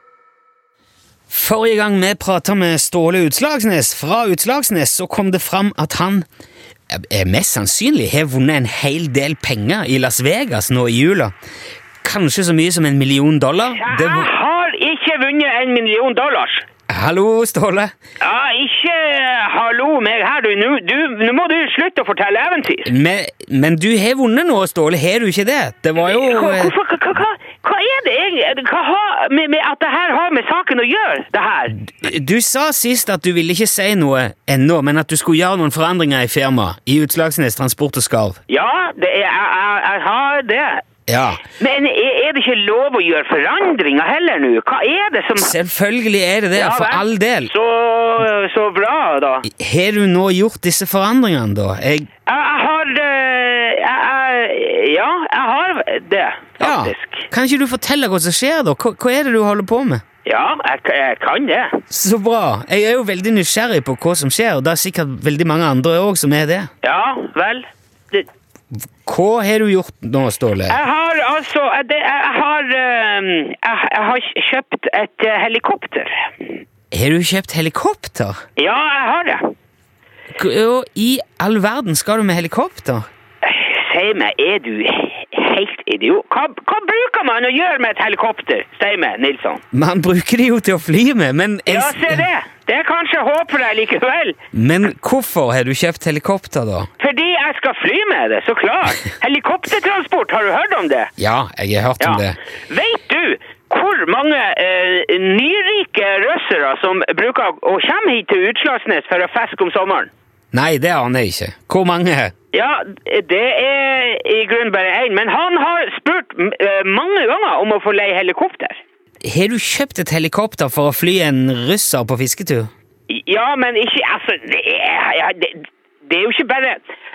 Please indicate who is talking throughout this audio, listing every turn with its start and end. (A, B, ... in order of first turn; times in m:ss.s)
0:01.3-0:06.2 A
0:06.9-0:11.3 A
0:12.0-0:14.3 A
0:13.8-0:16.6 B
0:16.9-0:17.9 A
0:18.2-0:22.9 B
0:22.8-0:26.7 A
0:26.0-0:31.8 B
0:31.8-0:38.4 A
0:38.5-0:40.8 B
0:41.1-0:41.4 A
0:41.6-0:45.5 B
0:45.4-0:47.5 A
0:46.5-0:49.5 B
0:49.4-0:52.1 A
0:52.3-0:57.2 B
0:56.6-1:00.0 A
1:00.2-1:01.8 B
1:01.9-1:06.7 A
1:06.8-1:08.2 B
1:09.0-1:10.8 A
1:10.7-1:16.6 B
1:16.9-1:18.4 A
1:18.6-1:19.5 B
1:20.3-1:23.0 A
1:23.4-1:29.6 B
1:29.7-1:32.3 A
1:31.7-1:34.4 B
1:34.5-1:36.9 A
1:37.0-1:41.1 B
1:41.2-1:42.4 A
1:42.0-1:50.1 B
1:50.5-1:52.3 A
1:52.5-1:58.8 B
1:59.2-2:02.7 A
2:03.1-2:06.8 B